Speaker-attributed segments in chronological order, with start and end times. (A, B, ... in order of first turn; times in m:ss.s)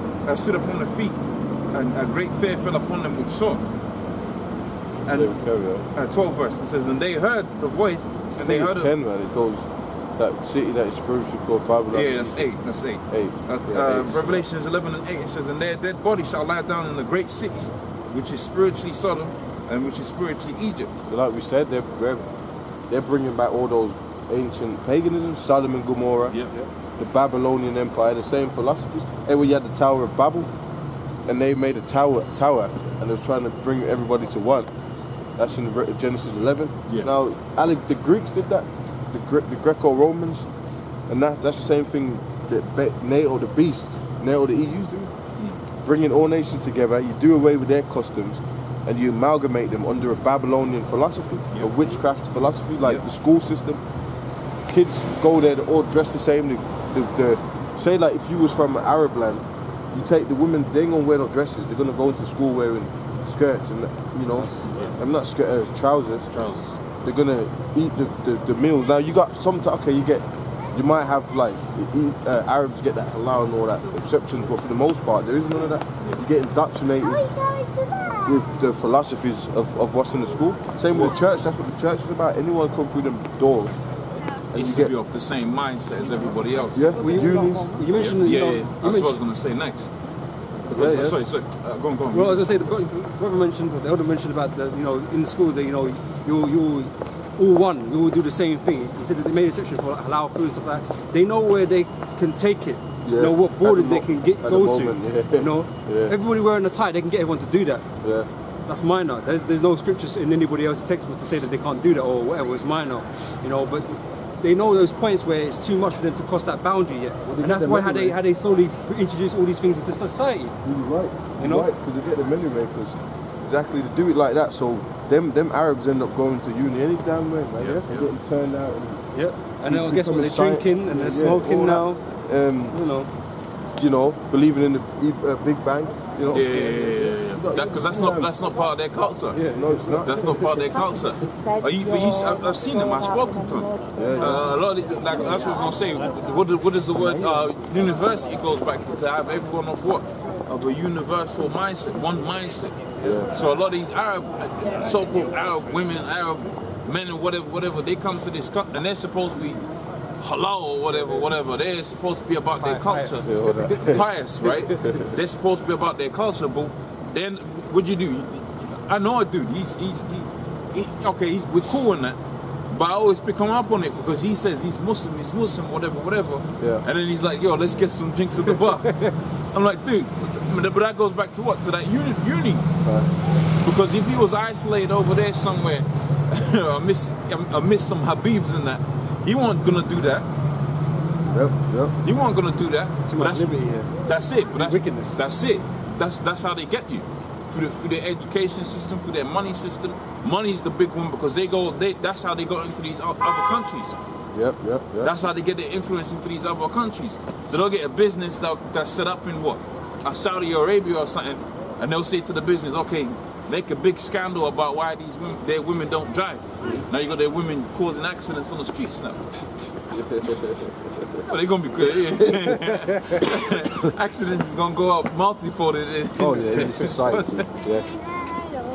0:00.2-0:01.2 A
0:01.7-0:03.6 A
0:05.0-0:05.3 A
0:05.1-0:05.9 B
0:05.9-0:08.9 A
0:08.4-0:12.5 B
0:11.9-0:21.0 A
0:13.1-0:14.4 B
0:21.1-0:22.3 B
0:22.9-0:26.4 B
0:27.0-0:30.5 B
0:31.3-0:34.7 B
0:35.4-0:40.5 B
0:41.1-0:45.1 B
0:45.8-0:53.8 B
0:54.7-1:06.3 B
1:04.4-1:05.0 A
1:06.3-1:06.8 A
1:07.0-1:23.8 B
1:24.5-1:24.9 B
1:24.5-1:26.8 A
1:26.7-1:27.7 B
1:27.0-1:29.2 C
1:28.0-1:29.9 A
1:30.7-1:31.2 B
1:30.7-1:32.6 A
1:32.1-1:47.8 C
1:43.0-1:46.1 B
1:48.0-1:48.3 B
1:48.7-2:00.6 C
1:57.2-1:58.2 B
2:00.6-2:09.0 B
2:01.4-2:01.7 C
2:07.6-2:08.1 A
2:09.1-2:12.0 C
2:09.6-2:12.8 B
2:12.7-2:13.1 C
2:13.8-2:16.6 B
2:16.3-2:19.4 A
2:17.3-2:18.3 B
2:19.3-2:20.3 C
2:19.5-2:20.4 B
2:19.9-2:32.8 A
2:23.9-2:24.4 B
2:33.0-2:33.3 B
2:33.3-2:39.6 A
2:40.2-2:52.2 A
2:42.6-2:44.0 C
2:43.2-2:45.2 B
2:44.7-2:45.0 C
2:52.7-3:02.6 A
2:56.6-2:56.8 B
3:02.8-3:03.1 B
3:03.6-3:10.3 A
3:11.3-3:11.9 B
3:12.0-3:24.0 A
3:13.1-3:13.9 C
3:14.5-3:15.2 C
3:24.3-3:25.1 B
3:25.0-3:39.2 A
3:39.9-3:41.2 B
3:41.2-3:47.6 A
3:42.1-3:42.8 B
3:46.2-3:48.0 B